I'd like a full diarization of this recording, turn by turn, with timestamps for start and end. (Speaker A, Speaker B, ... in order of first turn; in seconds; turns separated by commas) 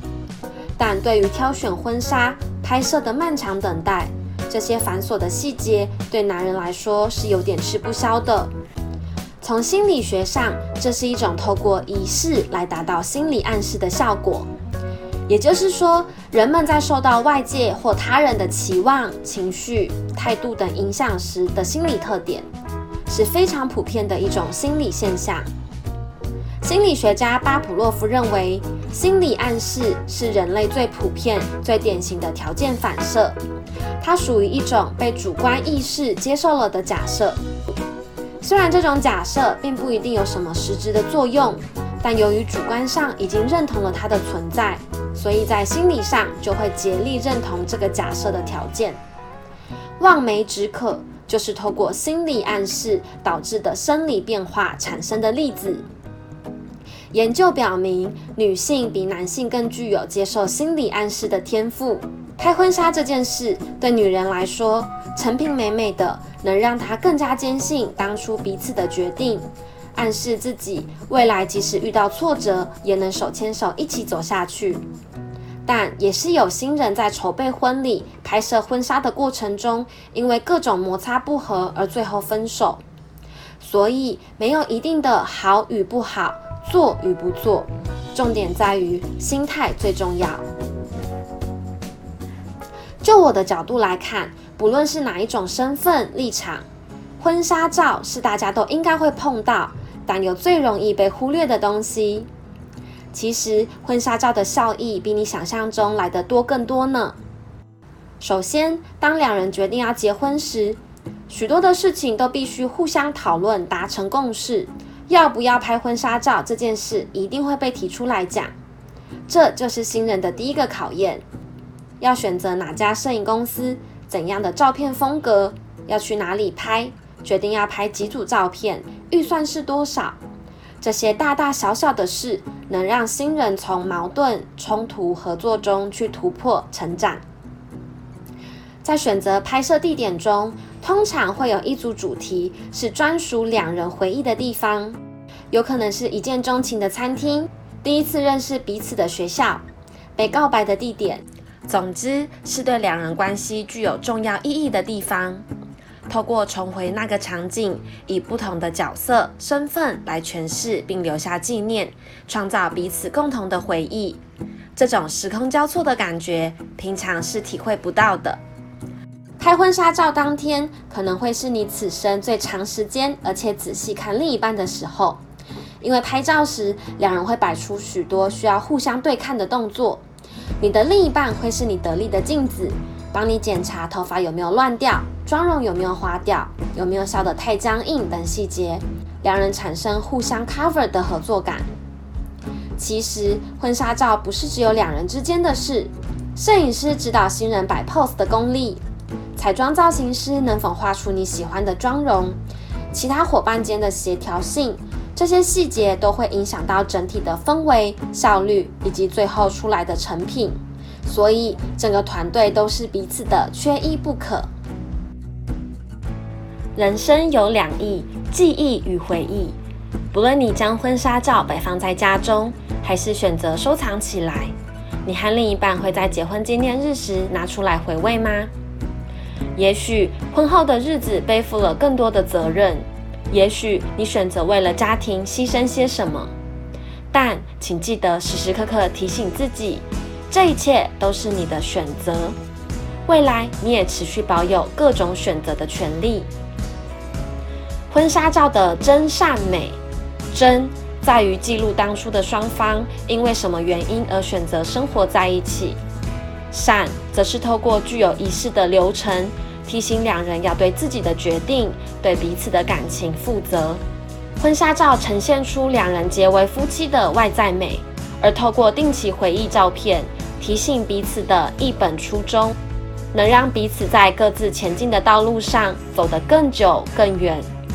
Speaker A: 0.8-8.5, Speaker A: 9.4-14.5, Speaker A: 15.3-22.5, Speaker A: 23.1-25.5, Speaker A: 26.6-33.4, Speaker A: 34.0-37.4, Speaker A: 38.4-49.0, Speaker A: 50.0-55.9, Speaker A: 57.1-74.8, Speaker A: 75.7-82.8, Speaker A: 83.6-90.5, Speaker A: 93.0-96.7, Speaker A: 97.2-102.3, Speaker A: 103.1-107.2, Speaker A: 108.2-110.8, Speaker A: 111.3-118.5, Speaker A: 119.3-121.2, Speaker A: 122.0-130.2, Speaker A: 130.8-137.2, Speaker A: 138.8-145.0, Speaker A: 145.5-149.6, Speaker A: 150.2-155.4, Speaker A: 156.1-164.2, Speaker A: 164.8-168.4, Speaker A: 169.4-175.2, Speaker A: 175.8-180.0, Speaker A: 180.6-191.7, Speaker A: 192.8-198.8, Speaker A: 199.4-202.4, Speaker A: 202.9-214.5, Speaker A: 216.8-219.6, Speaker A: 220.1-224.5, Speaker A: 225.1-228.5, Speaker A: 229.6-236.3, Speaker A: 237.1-242.4, Speaker A: 243.1-246.3, Speaker A: 247.9-249.8, Speaker A: 250.3-255.8, Speaker A: 256.5-263.8, Speaker A: 264.4-272.6, Speaker A: 273.1-277.5